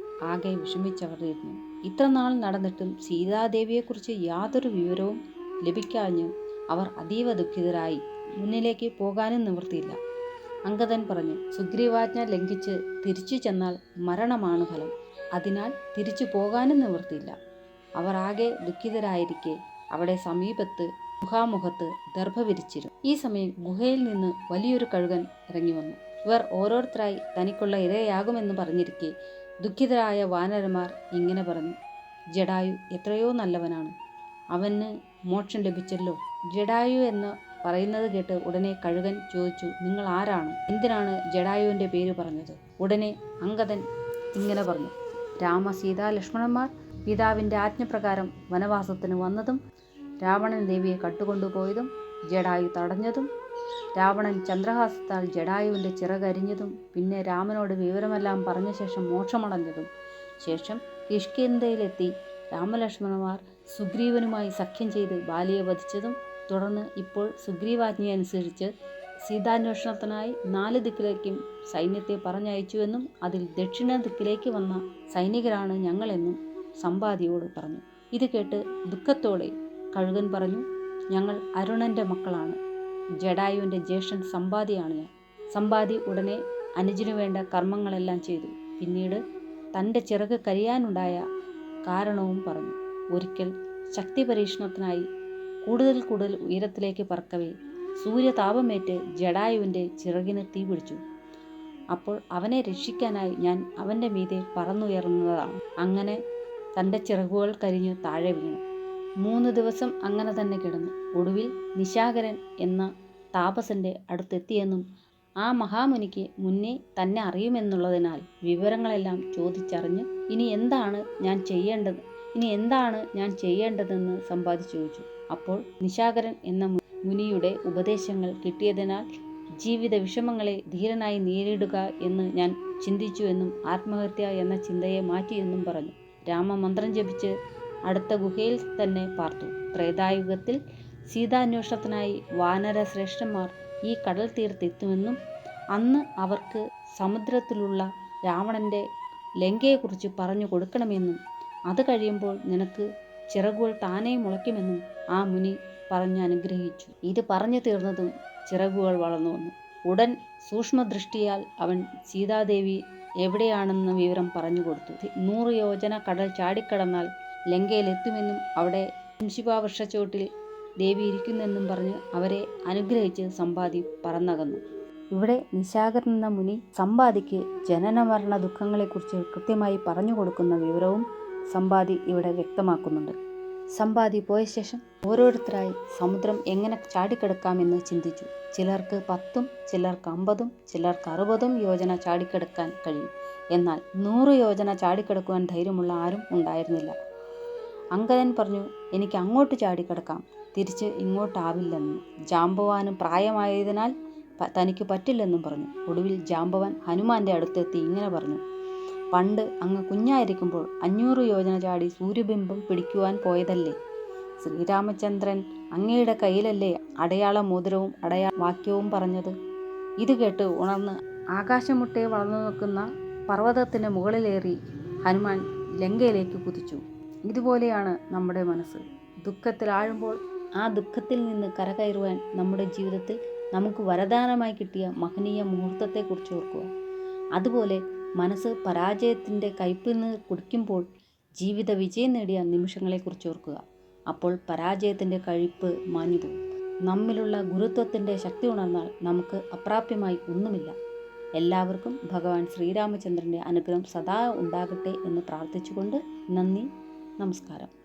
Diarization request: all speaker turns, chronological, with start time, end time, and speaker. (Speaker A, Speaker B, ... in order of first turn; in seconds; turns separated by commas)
Speaker A: 0.3-10.0, Speaker A: 10.7-17.3, Speaker A: 18.0-31.7, Speaker A: 32.4-33.9, Speaker A: 34.5-43.8, Speaker A: 44.4-49.6, Speaker A: 50.2-53.3, Speaker A: 54.0-59.9, Speaker A: 60.4-68.7, Speaker A: 69.3-82.6, Speaker A: 83.2-89.2, Speaker A: 89.7-91.2, Speaker A: 91.9-95.0, Speaker A: 95.6-101.0, Speaker A: 101.9-106.2, Speaker A: 106.8-108.6, Speaker A: 109.2-114.8, Speaker A: 115.4-129.0, Speaker A: 129.6-137.3, Speaker A: 137.9-140.6, Speaker A: 141.1-145.2, Speaker A: 145.7-148.8, Speaker A: 149.4-151.2, Speaker A: 151.7-170.2, Speaker A: 170.8-174.6, Speaker A: 175.1-183.1, Speaker A: 183.8-196.9, Speaker A: 197.9-208.4, Speaker A: 209.1-213.7, Speaker A: 214.4-219.3, Speaker A: 220.0-236.7, Speaker A: 237.3-240.8, Speaker A: 241.4-246.3, Speaker A: 246.9-250.7, Speaker A: 251.4-256.7, Speaker A: 257.2-257.7